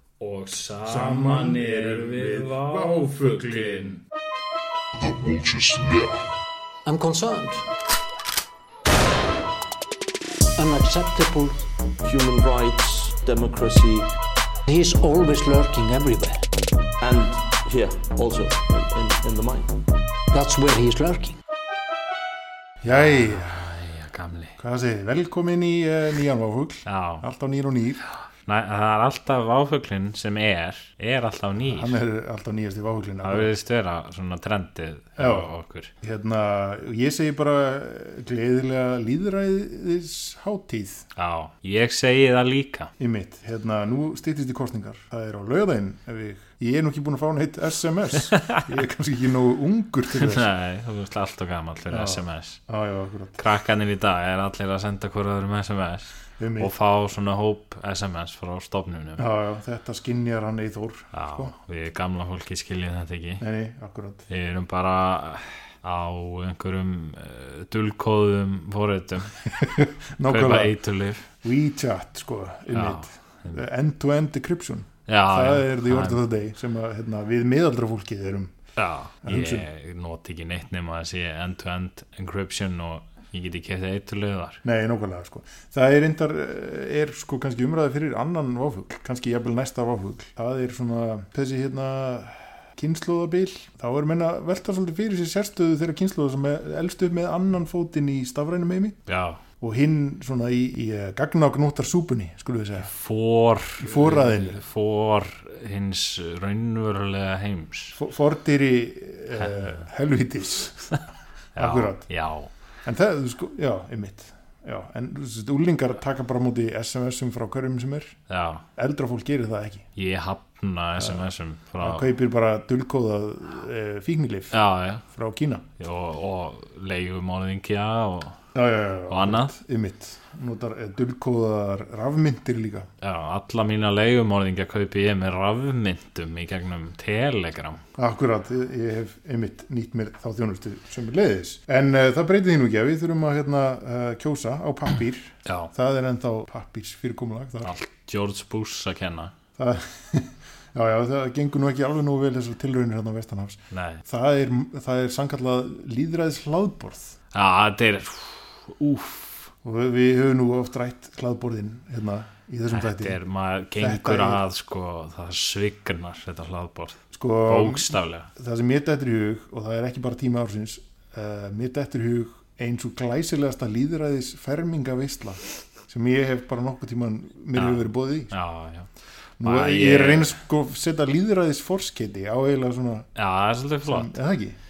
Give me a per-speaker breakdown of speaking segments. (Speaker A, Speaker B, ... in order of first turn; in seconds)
Speaker A: 0.2-4.0, 22.9-24.6, 26.9-27.2, 28.5-32.0, 33.2-35.9, 41.2-42.9, 48.4-48.7, 50.1-52.6, 53.4-59.2, 61.1-63.4, 64.3-69.5, 70.3-71.3, 72.7-73.6, 75.1-76.2, 78.8-84.6, 99.1-99.4, 102.8-108.0, 109.4-109.8, 111.6-112.5, 118.3-118.7, 120.0-122.1, 124.5-125.0, 125.8-128.4, 129.1-129.6, 133.0-137.8, 145.4-145.7, 147.6-149.3, 153.7-154.0, 157.3-159.5, 162.7-168.3, 177.6-178.9, 179.4-180.4, 183.2-184.2
Speaker B: 0.8-3.9, 22.8-23.7, 24.6-28.0, 31.6-33.5, 35.2-35.5, 36.0-41.0, 43.0-50.5, 51.9-53.4, 56.4-56.7, 59.2-61.5, 63.4-64.3, 69.5-70.8, 71.4-78.5, 79.2-79.7, 84.6-99.0, 99.6-102.9, 103.8-104.6, 107.9-111.0, 111.6-112.0, 112.8-118.2, 118.8-119.9, 121.0-121.2, 121.8-124.5, 125.1-125.7, 128.6-132.9, 138.0-147.8, 149.6-157.2, 159.6-163.2, 163.8-164.4, 167.1-178.3, 179.4-183.1, 183.9-184.6
Speaker C: 6.9-7.7, 10.6-11.6, 14.7-16.4, 20.3-21.4
Speaker D: 12.0-14.1, 17.0-19.8